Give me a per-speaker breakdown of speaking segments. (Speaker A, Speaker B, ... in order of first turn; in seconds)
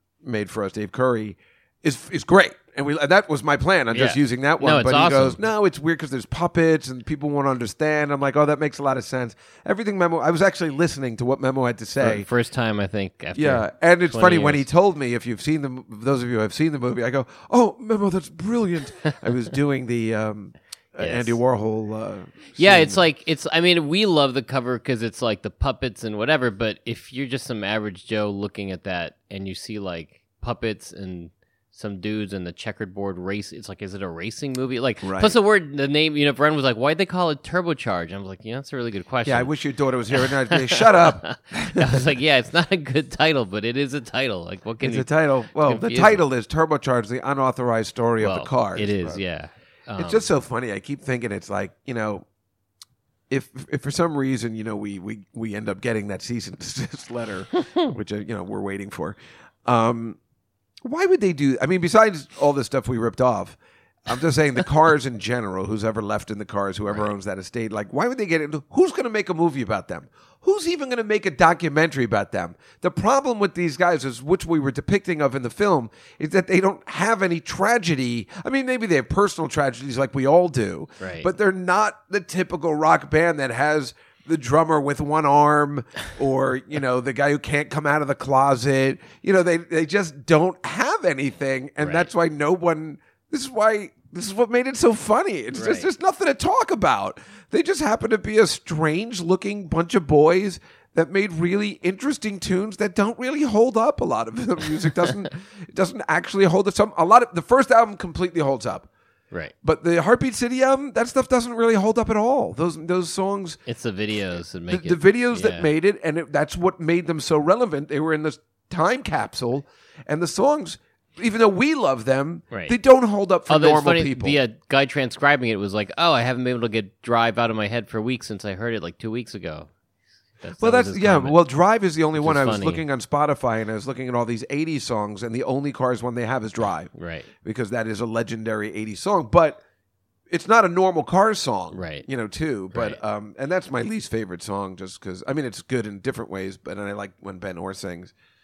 Speaker A: 0.2-12.3, 13.3-23.0, 35.0-35.3, 39.2-42.0, 44.8-49.2, 50.0-52.2, 53.3-60.2, 60.8-108.9, 109.6-113.6, 114.7-124.4, 130.6-139.6, 140.3-148.1
Speaker B: 3.9-5.4, 12.0-14.7, 21.0-21.4, 22.6-39.5, 40.1-46.2, 48.2-50.3, 81.0-81.3, 91.8-92.1, 95.5-95.9, 113.7-115.7, 122.5-122.8, 123.5-129.7, 130.4-131.4, 132.2-132.8, 136.9-137.3, 141.7-142.1, 142.7-143.0